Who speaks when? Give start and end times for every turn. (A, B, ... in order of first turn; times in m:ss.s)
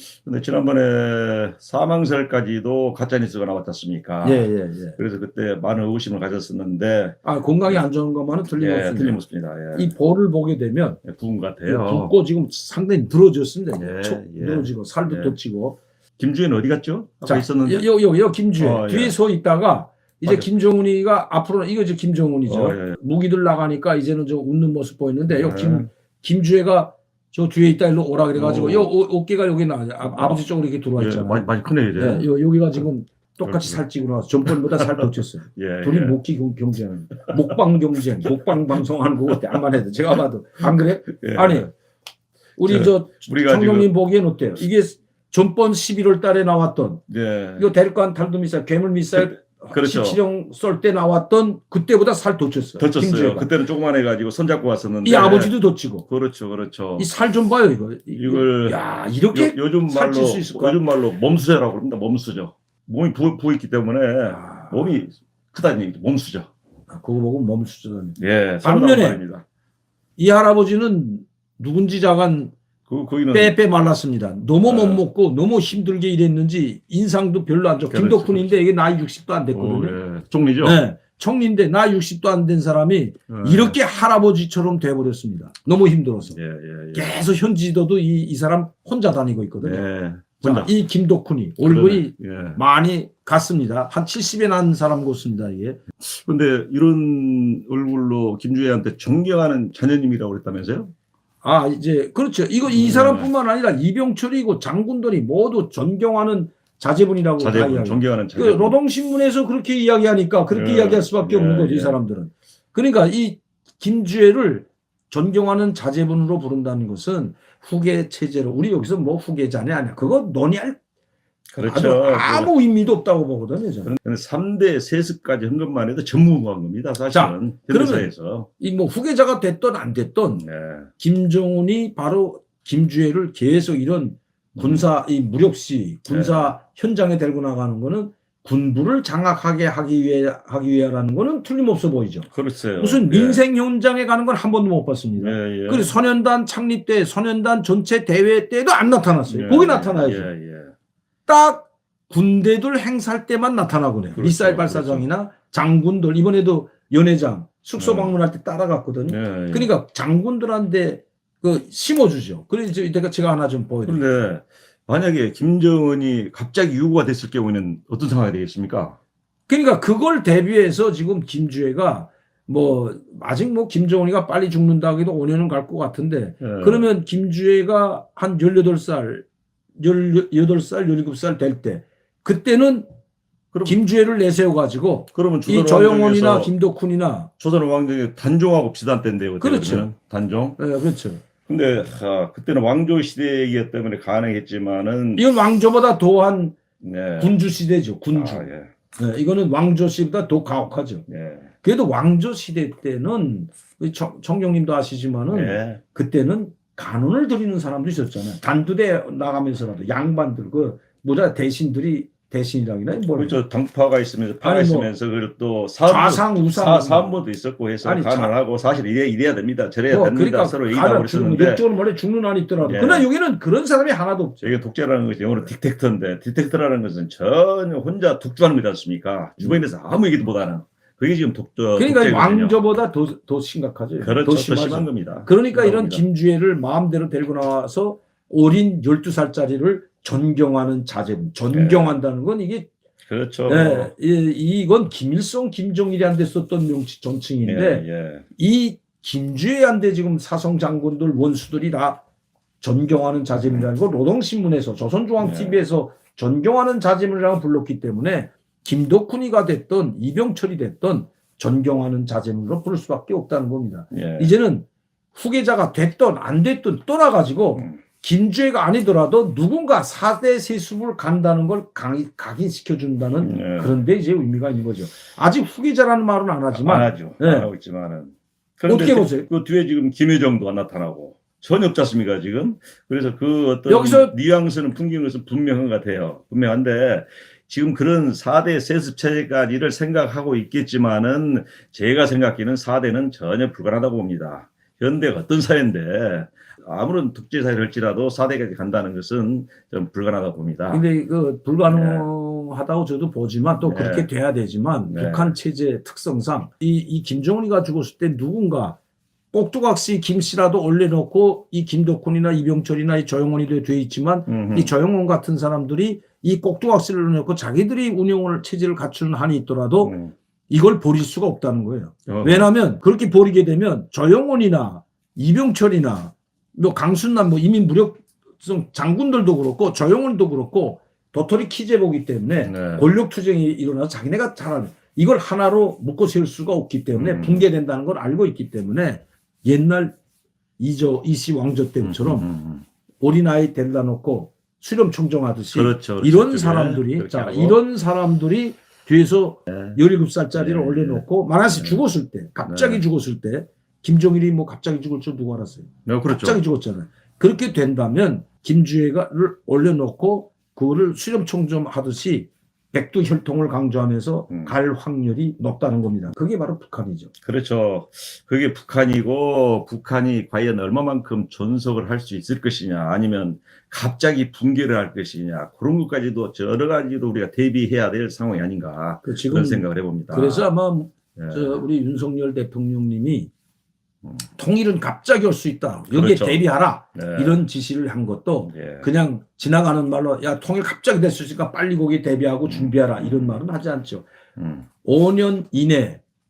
0:00.2-0:07.8 A
0:04.2-0:05.0 B
0:07.2-0:09.2 B
0:08.6-0:09.9 A
0:09.7-0:11.0 B
0:11.0-0:12.1 A
0:11.7-0:15.8 B
0:13.8-0:15.4 A
0:16.2-0:17.9 A
0:17.2-0:41.7 B
0:18.6-0:19.2 A
0:22.5-0:23.0 A
0:25.3-0:25.9 A
0:28.4-0:28.9 A
0:31.0-0:32.3 A
0:33.4-0:33.8 A
0:34.5-0:35.0 A
0:35.6-0:36.2 A
0:41.2-0:41.7 A
0:42.6-0:47.0 B
0:42.7-0:43.9 A
0:47.1-0:47.7 A
0:47.6-0:53.5 B
0:49.1-0:50.2 A
0:52.8-0:55.6 A
0:55.0-0:56.1 B
0:56.1-0:57.1 A
0:57.0-1:00.8 B
0:58.2-1:06.5 A
1:04.3-1:04.8 B
1:06.9-1:09.2 B
1:08.2-1:09.4 A
1:10.2-1:12.5 B
1:12.9-1:13.6 A
1:13.3-1:20.0 B
1:14.6-1:15.0 A
1:17.9-1:18.5 A
1:19.5-1:20.8 A
1:20.6-1:26.4 B
1:23.3-1:23.8 A
1:26.3-1:27.2 A
1:26.9-1:29.8 B
1:29.6-1:30.7 A
1:30.4-1:35.8 B
1:31.6-1:32.6 A
1:36.0-1:40.9 A
1:41.4-2:00.8 B
1:42.7-1:43.3 A
1:47.4-1:48.8 A
1:50.5-1:52.0 A
2:01.5-2:02.5 A
2:01.6-2:03.9 B
2:03.9-2:08.5 A
2:07.1-2:10.4 B
2:10.4-2:10.9 A
2:11.0-2:30.3 B
2:14.6-2:14.9 A
2:16.1-2:16.5 A
2:22.3-2:23.4 A
2:25.2-2:25.9 A
2:29.3-2:30.7 A
2:31.3-2:44.0 B
2:34.2-2:35.1 A
2:37.8-2:38.1 A
2:39.1-2:39.7 A
2:43.8-2:49.0 A
2:49.5-2:59.3 B
2:56.4-2:56.9 A
2:59.8-3:02.9 B
3:03.6-3:07.3 B
3:05.1-3:06.5 A
3:07.4-3:10.6 A
3:09.4-3:09.9 B
3:10.6-3:11.2 B
3:11.5-3:15.3 A
3:15.2-3:16.6 B
3:16.8-3:17.4 A
3:17.2-3:21.1 B
3:18.1-3:18.7 A
3:21.1-3:21.5 A
3:21.6-3:33.4 B
3:25.3-3:25.8 A
3:33.2-3:41.6 A
3:34.4-3:34.9 B
3:35.9-3:37.1 B
3:37.8-3:38.3 B
3:39.9-3:44.4 B
3:42.6-3:43.1 A
3:44.4-3:52.6 A
3:51.8-4:02.7 B
3:54.0-3:56.0 A
4:01.5-4:02.0 A
4:03.1-4:03.9 A
4:03.5-4:07.8 B
4:07.4-4:08.2 A
4:08.4-4:12.0 B
4:12.6-4:37.5 B
4:15.2-4:15.7 A
4:23.9-4:24.3 A
4:33.2-4:33.8 A
4:36.5-5:00.8 A
4:38.7-4:39.3 B
4:43.7-4:44.2 B
5:00.7-5:08.8 B
5:01.7-5:02.1 A
5:03.6-5:04.1 A
5:04.9-5:05.3 A
5:09.3-5:20.0 B
5:14.3-5:14.7 A
5:19.8-5:20.1 A
5:20.5-5:40.0 B
5:22.1-5:22.5 A
5:32.4-5:32.9 A
5:37.0-5:37.4 A
5:40.6-5:42.3 B
5:41.8-5:42.6 A
5:43.0-6:07.1 B
5:45.5-5:47.6 A
5:49.5-5:49.8 A
5:50.3-5:51.8 A
5:52.5-5:52.8 A
5:55.9-5:56.4 A
6:07.2-6:20.5 A
6:19.0-6:23.3 B
6:21.2-6:21.6 A
6:24.4-6:34.1 B
6:25.9-6:26.4 A
6:27.0-6:27.4 A
6:28.5-6:28.9 A
6:32.4-6:33.4 A
6:34.4-6:34.7 A
6:34.8-6:36.0 B